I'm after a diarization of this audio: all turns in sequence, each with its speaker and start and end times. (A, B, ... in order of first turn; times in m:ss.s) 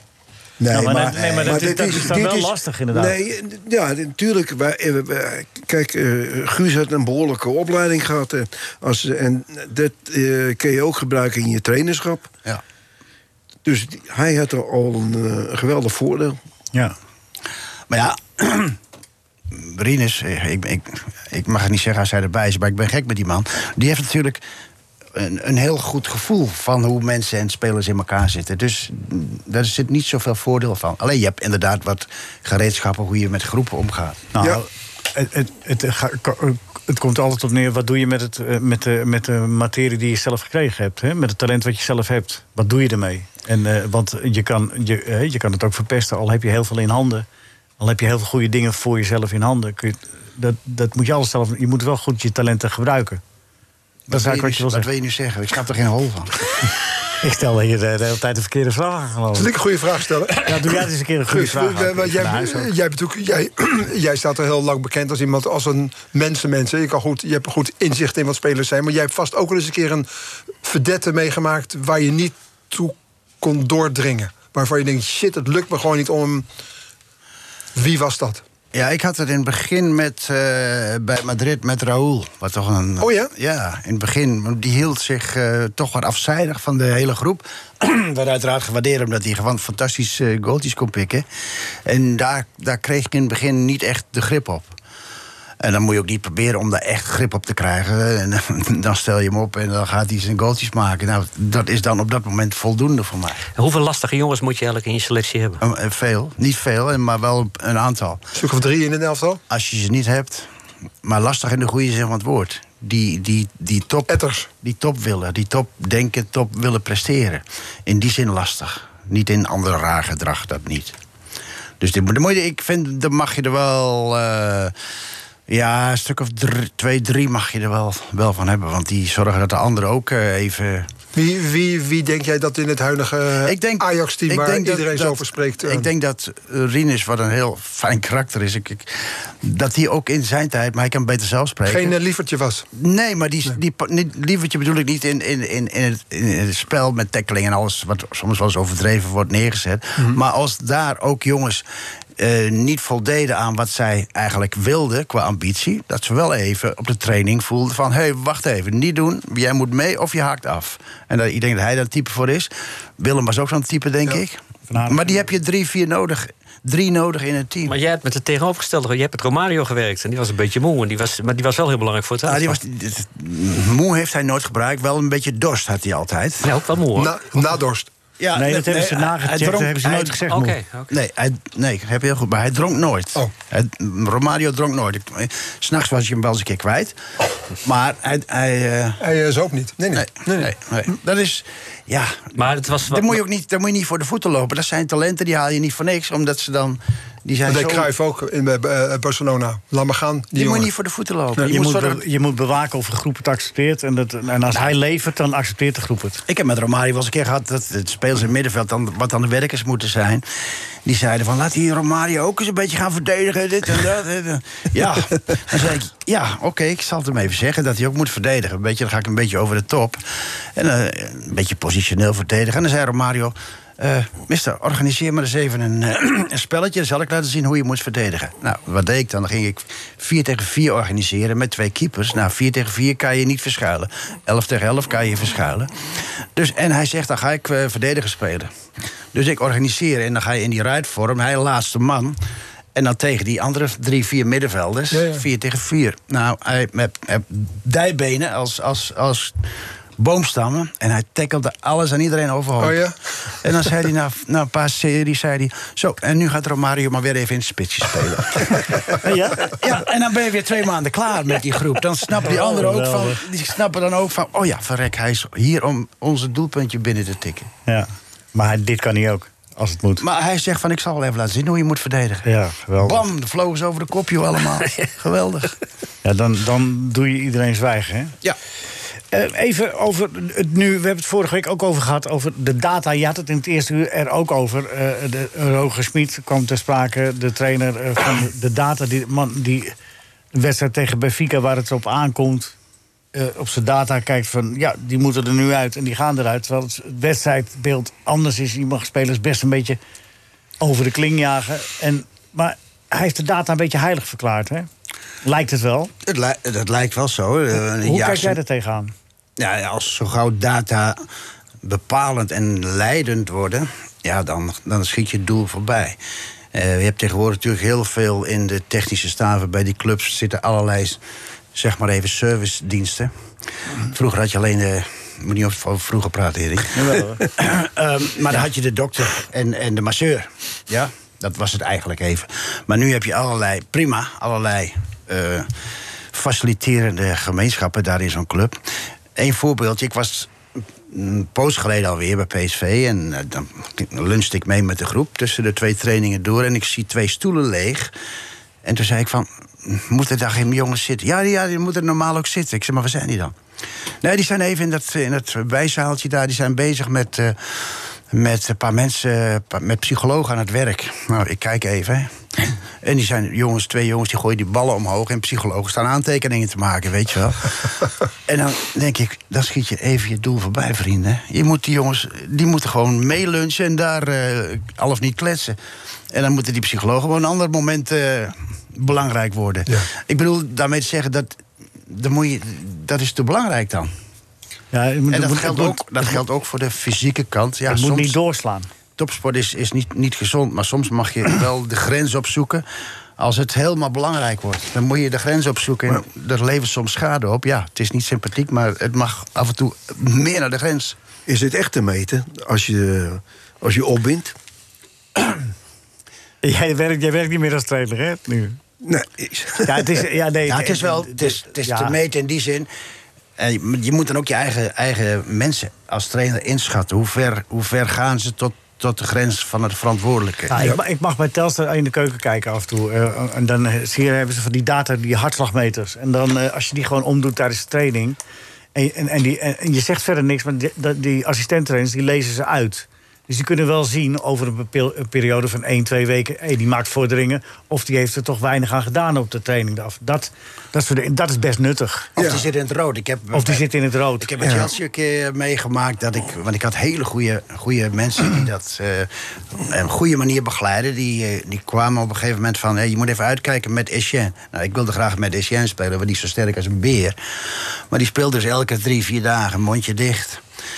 0:00.6-0:12.3 A
0:00.7-0:03.2 B
0:01.2-0:01.4 C
0:13.6-0:16.4 A
0:17.9-0:18.8 C
0:19.5-0:24.4 C
0:25.1-0:34.3 C
0:34.3-0:47.2 B
0:47.8-0:53.2 B
0:54.1-0:56.3 C
0:54.1-0:54.9 B
0:57.2-0:59.5 B
0:59.3-1:00.5 D
1:00.4-1:02.6 B
1:01.3-1:10.0 D
1:02.2-1:02.5 C
1:10.6-1:16.4 D
1:17.7-1:18.4 D
1:18.7-1:34.7 C
1:23.0-1:23.3 D
1:35.6-1:43.4 C
1:43.6-1:45.6 E
1:45.6-1:48.2 C
1:48.3-1:49.4 D
1:49.5-1:50.5 C
1:51.0-2:01.0 C
1:54.1-1:54.5 D
2:01.8-2:04.7 C
2:05.5-2:10.9 C
2:11.1-2:15.9 D
2:13.4-2:21.9 C
2:21.7-2:22.6 D
2:22.7-2:31.6 C
2:32.2-2:47.7 C
2:44.7-2:45.1 B
2:47.6-2:52.6 E
2:52.2-2:56.5 C
2:56.4-2:57.3 E
2:56.9-2:57.9 D
2:58.2-3:00.2 C
2:58.3-3:00.6 B
3:00.3-3:00.9 E
3:00.9-3:07.0 C
3:07.6-3:09.0 C
3:09.0-3:10.5 D
3:09.9-3:17.9 C
3:12.4-3:13.2 E
3:17.5-3:20.7 D
3:20.3-3:22.0 C
3:21.4-3:26.2 B
3:26.3-3:30.2 C
3:30.8-3:58.5 C
3:59.1-4:02.2 C
4:02.7-4:09.4 C
4:04.9-4:05.2 D
4:10.0-4:27.5 C
4:12.6-4:13.0 D
4:19.0-4:19.6 B
4:22.2-4:23.2 B
4:27.6-4:30.0 B
4:30.0-4:35.5 C
4:32.2-4:33.0 B
4:36.0-4:38.1 B
4:39.1-4:49.7 B
4:50.3-4:52.5 B
4:53.1-4:59.8 B
5:00.6-5:04.7 B
5:05.2-5:05.9 B
5:06.0-5:08.4 C
5:07.8-5:08.9 B
5:09.4-5:11.0 C
5:11.6-5:16.0 C
5:16.5-5:21.0 C
5:21.5-5:23.1 C
5:23.8-5:35.5 C
5:26.7-5:27.3 B
5:36.1-5:38.6 C
5:39.2-5:40.3 C
5:40.9-5:47.9 C
5:48.6-5:53.3 C
5:54.0-6:15.6 C
6:16.1-6:23.9 C
6:24.7-6:26.2 B
6:25.1-6:28.2 C
6:27.7-6:28.7 B
6:29.0-6:32.6 C
6:33.2-6:41.0 C
6:41.3-6:44.3 A
6:46.4-6:48.6 B
6:48.8-6:49.9 A
6:49.6-6:52.0 B
6:50.4-6:52.7 C
6:53.4-7:00.6 C
7:00.5-7:08.2 B
7:08.7-7:22.1 B
7:22.2-7:22.4 A
7:22.2-7:23.6 C
7:23.3-7:24.3 B
7:24.2-7:40.4 C
7:24.4-7:24.7 A